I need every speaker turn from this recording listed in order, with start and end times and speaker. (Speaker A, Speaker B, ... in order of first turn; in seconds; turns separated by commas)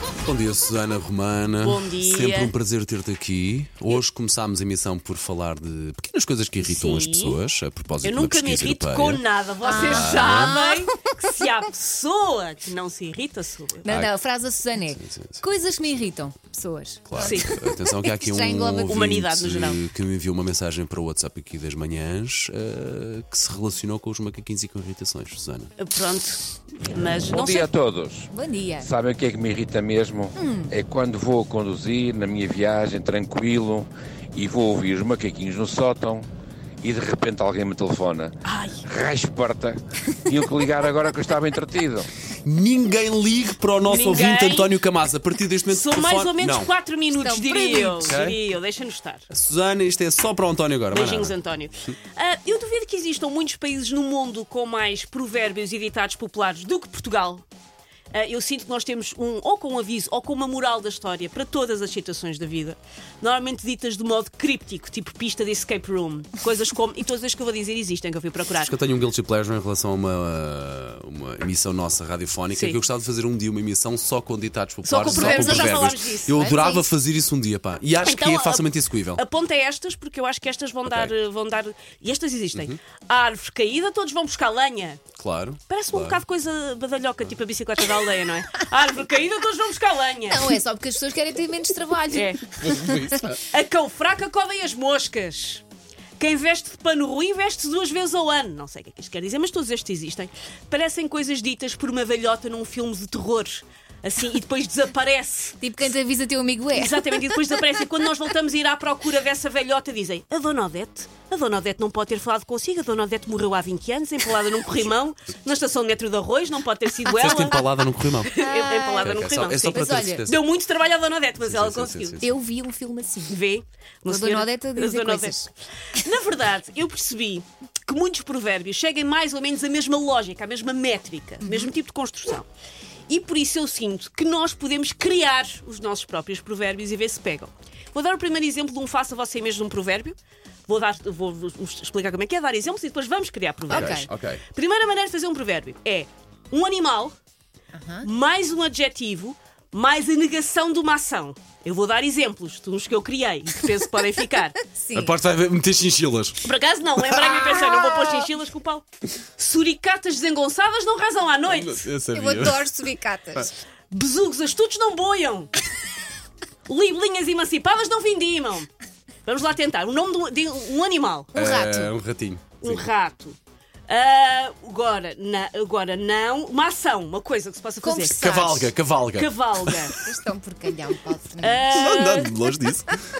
Speaker A: 0.2-9.2, Speaker B: 1.6-2.5, Speaker B: 6.6-7.4, Speaker B: 8.0-13.9, Speaker C: 9.6-11.2, Speaker A: 9.8-10.6, Speaker C: 13.8-19.0, Speaker A: 13.9-14.1, Speaker A: 14.8-15.4, Speaker A: 17.1-25.7, Speaker B: 17.2-17.5, Speaker B: 18.8-19.8, Speaker B: 25.8-27.7, Speaker D: 27.3-36.3, Speaker C: 28.3-28.9, Speaker C: 30.4-30.7, Speaker D: 36.8-42.1, Speaker B: 38.5-38.9, Speaker A: 42.4-46.7, Speaker B: 43.8-44.8, Speaker B: 45.7-49.3, Speaker C: 47.1-48.1, Speaker A: 48.0-48.4, Speaker A: 49.3-51.4, Speaker B: 50.9-57.4, Speaker B: 58.1-68.7, Speaker A: 68.6-79.2, Speaker B: 72.5-72.8, Speaker B: 74.8-76.5, Speaker C: 76.3-76.9, Speaker B: 78.0-85.0, Speaker A: 80.8-81.1, Speaker A: 85.1-86.2, Speaker B: 85.7-90.5, Speaker C: 90.3-93.3, Speaker B: 92.1-92.4, Speaker A: 92.6-93.4, Speaker B: 93.4-95.6, Speaker B: 96.2-105.6, Speaker C: 105.6-107.3, Speaker B: 106.7-117.6, Speaker A: 117.1-118.4, Speaker B: 118.2-122.3, Speaker C: 118.3-119.1, Speaker A: 119.0-120.4, Speaker C: 119.7-120.3, Speaker A: 121.4-122.3, Speaker C: 122.2-123.4, Speaker B: 123.3-132.4, Speaker C: 124.0-125.5, Speaker C: 131.4-131.7, Speaker B: 133.1-147.2, Speaker C: 143.7-144.1, Speaker A: 143.7-144.4, Speaker C: 147.7-148.1, Speaker B: 148.0-154.6, Speaker C: 154.7-155.1, Speaker A: 154.9-156.5, Speaker B: 156.4-158.8, Speaker A: 157.0-157.4, Speaker B: 159.4-161.8, Speaker A: 161.4-163.5, Speaker C: 162.1-163.5, Speaker B: 163.9-165.5, Speaker B: 166.7-168.7, Speaker B: 169.2-171.3, Speaker C: 171.3-171.9, Speaker A: 171.3-172.9, Speaker B: 172.6-173.4, Speaker B: 173.9-178.2, Speaker C: 177.8-178.8, Speaker A: 178.2-180.1, Speaker B: 179.1-180.0, Speaker C: 179.9-181.8, Speaker B: 181.4-182.4, Speaker A: 181.7-183.1